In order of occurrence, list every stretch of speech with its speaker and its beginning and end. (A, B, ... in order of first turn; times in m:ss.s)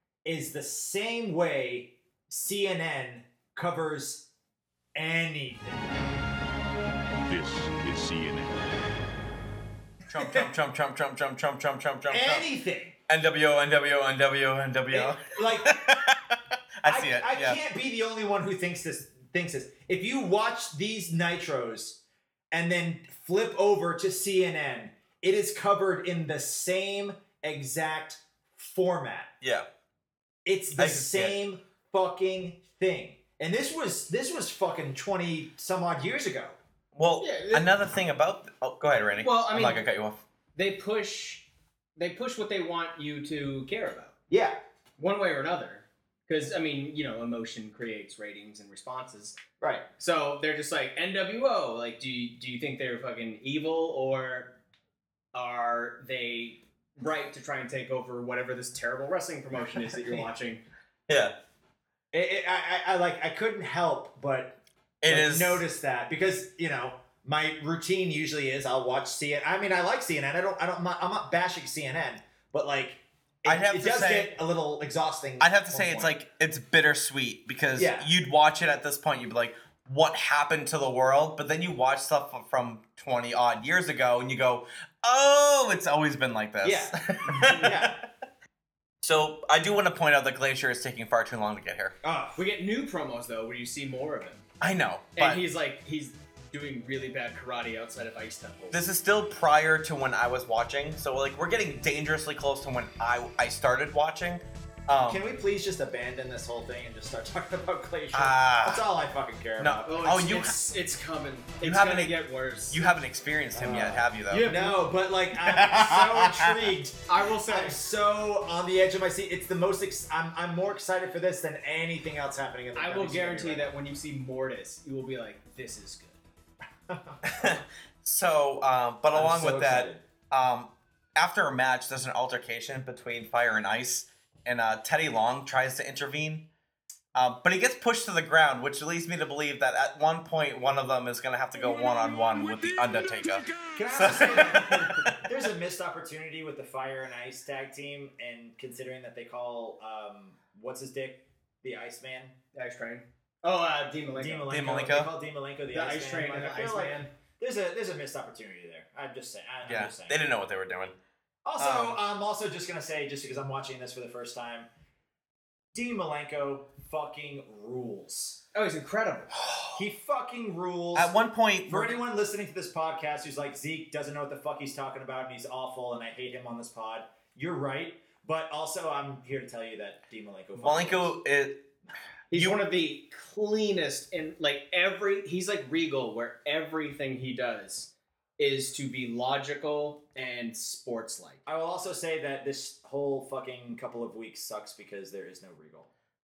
0:00.2-0:04.3 A
0:04.9-0:05.9 A
0:07.3-0:08.6 B
0:10.1-0:12.5 C
0:12.1-0:13.0 A
0:13.1-0:17.6 C
0:14.9-0:15.8 A
0:16.8-0:29.3 A
0:29.4-0:29.7 C
0:30.4-0:36.6 A
0:30.7-0:31.4 C
0:36.9-0:40.2 C
0:37.2-0:37.7 D
0:39.2-0:39.8 D
0:40.6-0:41.4 D
0:42.0-0:44.1 D
0:44.3-0:44.6 A
0:45.0-0:49.4 D
0:49.6-0:49.9 A
0:50.0-0:54.6 D
0:55.3-1:00.6 D
1:01.1-1:01.3 C
1:02.1-1:16.1 A
1:05.0-1:05.6 C
1:13.4-1:14.3 C
1:15.4-1:28.0 C
1:17.8-1:18.1 A
1:26.6-1:28.0 A
1:27.3-1:27.6 D
1:29.0-1:31.9 C
1:32.0-1:32.4 A
1:32.4-1:34.4 D
1:34.6-1:35.4 C
1:35.1-1:38.8 D
1:38.7-1:45.2 C
1:45.0-1:50.0 A
1:48.1-1:48.9 C
1:49.6-1:50.6 C
1:49.8-1:52.8 D
1:51.6-1:54.6 C
1:53.5-2:03.7 A
1:53.6-1:54.8 D
1:55.4-1:56.5 C
1:57.1-1:57.8 D
2:02.7-2:06.2 D
2:06.9-2:07.3 A
2:07.2-2:16.5 C
2:09.1-2:10.0 A
2:17.1-2:25.2 C
2:21.6-2:23.8 B
2:23.7-2:32.4 A
2:32.5-2:34.5 D
2:34.1-2:40.2 A
2:34.5-2:35.1 C
2:35.7-2:37.1 D
2:39.6-2:41.0 C
2:41.4-2:44.7 A
2:41.6-2:42.0 C
2:45.7-2:48.4 A
2:48.5-2:49.3 D
2:49.7-3:01.1 A
2:50.9-2:52.0 C
3:00.6-3:01.6 C
3:02.3-3:11.4 D
3:02.3-3:02.6 C
3:11.4-3:15.9 A